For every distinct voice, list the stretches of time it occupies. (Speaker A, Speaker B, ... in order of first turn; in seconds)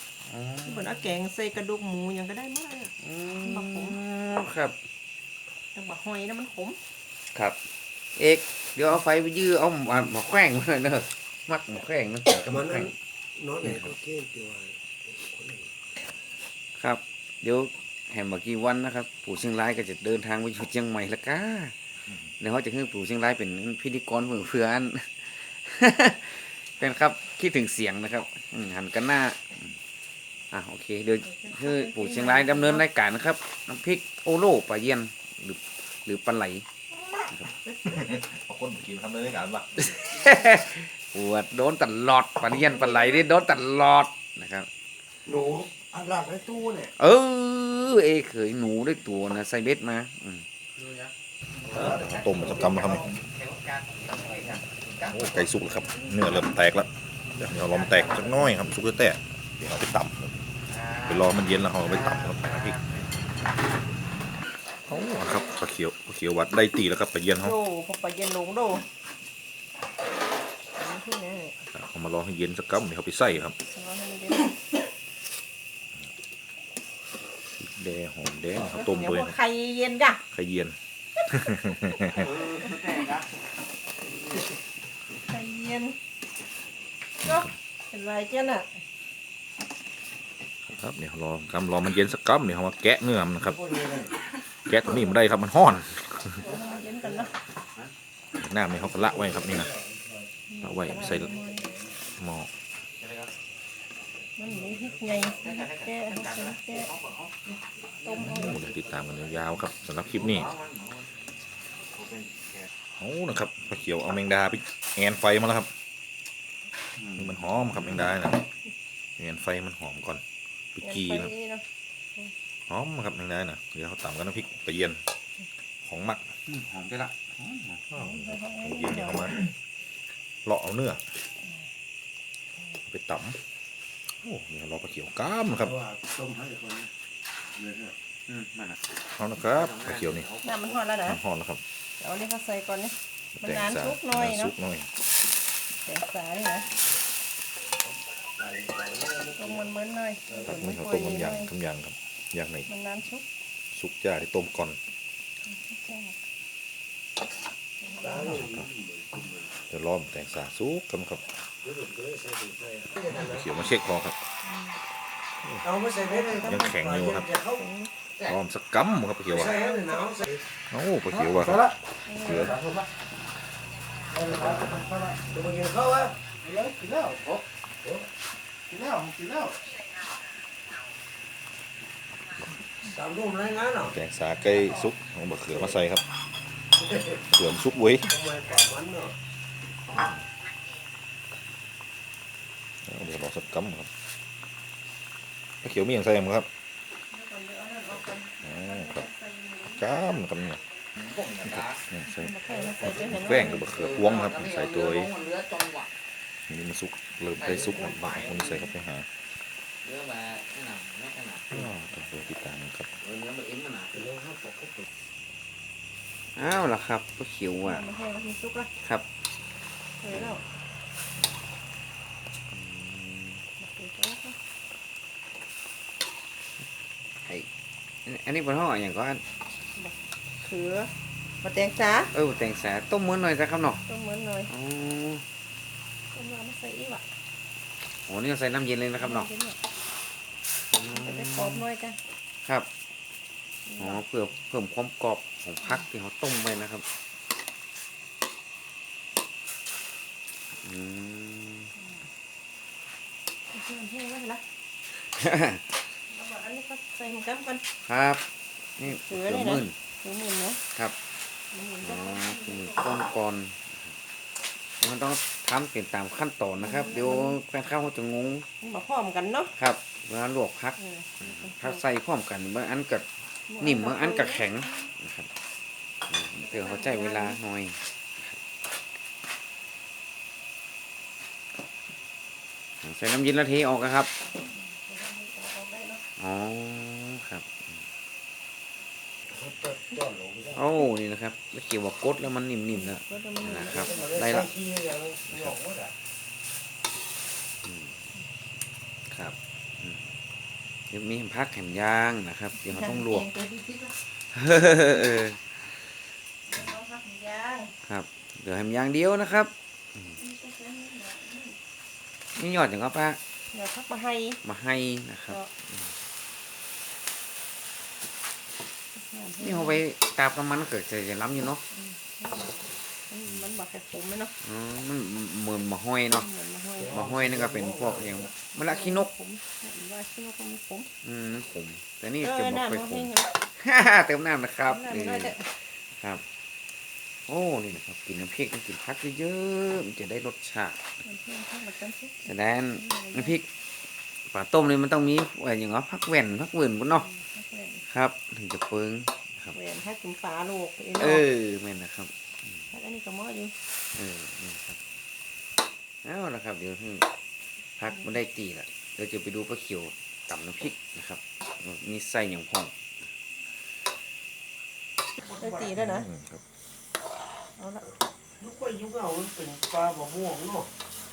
Speaker A: 0.2-1.0, 3.0-4.7, 8.2-12.9, 13.6-13.9, 16.8-21.7, 22.4-29.6, 30.5-36.6, 39.8-44.7, 47.0-50.5, 51.6-56.5, 57.5-58.5, 60.7-63.3, 82.1-83.3, 103.0-103.3, 105.0-108.8, 110.0-111.1, 111.9-112.7, 116.9-118.1, 126.5-127.8, 138.3-138.8, 139.4-140.8, 200.9-201.8, 202.5-205.9, 207.4-208.7, 209.8-211.7, 213.0-213.9, 216.3-217.8, 220.1-220.3, 222.5-223.4, 228.0-229.2, 232.1-233.8, 234.5-235.2, 238.1-239.3, 240.7-241.6, 243.8-246.8, 250.6-251.7, 255.0-255.6, 257.9-258.2, 258.8-259.7, 261.8-263.9, 264.8-268.4, 269.6-273.1, 273.6-275.3, 276.1-278.4, 282.8-284.1, 286.2-287.7, 290.5-294.5, 295.3-295.5, 297.6-298.0, 299.1-300.1, 300.9-303.3, 304.3-305.6, 307.9-310.2, 312.4-313.2, 314.4-315.8, 319.4-321.6, 324.4-326.3, 326.9-329.1, 331.0-335.4, 336.0-336.2, 337.3-340.8, 342.2-343.4, 344.3-347.1, 347.9-349.5, 351.0-352.1, 353.9-354.8, 356.0-357.1, 357.8-362.7
Speaker B: 0.7-2.9, 3.4-4.0, 5.7-6.8, 31.3-32.8, 67.3-68.9, 70.7-71.6, 73.6-74.6, 78.5-80.2, 85.2-86.0, 87.2-88.7, 96.4-97.3, 100.5-101.7, 104.4-106.9, 108.0-108.6, 120.8-121.6, 127.9-129.4, 140.4-141.2, 142.0-144.5, 145.8-146.7, 149.4-151.5, 152.7-153.2, 155.4-156.1, 157.8-158.3, 166.0-166.6, 167.6-167.9, 169.4-170.2, 172.1-172.5, 197.1-200.2, 202.1-203.7, 217.6-218.7, 220.0-220.4, 223.6-224.3, 229.8-230.9, 231.4-232.1, 233.9-234.5, 236.1-237.0, 239.0-239.6, 240.9-242.0, 243.7-244.0, 253.5-254.4, 256.1-257.6, 258.9-260.6, 261.5-263.0, 266.6-267.4, 268.6-269.5, 270.8-271.8, 273.5-274.7, 276.4-277.4, 284.4-286.0, 292.7-294.2, 302.6-303.9, 306.5-307.7, 310.2-311.6, 313.5-314.4, 318.9-319.8, 321.7-324.3, 326.1-327.0, 328.7-330.9, 332.2-333.3, 334.7-335.5, 341.0-343.4, 347.0-347.8, 349.5-351.2, 352.7-353.5, 365.2-366.1, 367.6-367.9
Speaker C: 12.4-15.7, 45.2-46.9, 93.6-93.9, 96.5-97.3, 98.7-100.3, 101.0-101.9, 135.6-136.9, 137.5-137.9, 148.4-149.7, 150.3-150.5, 158.0-159.5, 161.6-163.4, 165.6-167.7, 169.3-170.4, 175.3-176.2, 182.8-183.9, 186.8-187.2, 188.0-189.1, 213.9-214.8, 289.3-290.6, 293.7-295.9, 326.8-328.3, 368.4-370.7
Speaker D: 37.8-40.0, 51.7-53.2, 55.1-60.4, 61.0-62.8, 64.9-67.5, 71.7-73.6, 77.6-79.3, 80.3-82.3, 90.7-93.6, 94.7-96.5, 98.3-99.7, 100.6-101.3, 102.1-102.5, 108.2-110.5, 113.0-115.7, 117.2-118.4, 119.2-120.2, 120.8-121.3, 122.7-125.0, 125.8-126.3, 127.9-129.5, 130.4-131.0, 132.8-133.4, 134.2-135.7, 139.2-140.2, 141.0-141.6, 143.4-144.9, 150.4-152.7, 153.7-154.8, 158.2-158.7, 159.7-161.2, 163.1-164.2, 166.4-167.3, 168.2-169.6, 170.7-172.6, 183.8-186.0, 187.2-188.1, 189.9-190.2, 192.8-193.9, 195.6-196.5, 198.4-199.1, 199.7-200.6, 201.4-205.1, 206.5-209.1, 211.5-212.9, 365.7-366.4
Speaker E: 172.5-172.9, 174.1-175.2, 176.4-177.4, 178.7-179.6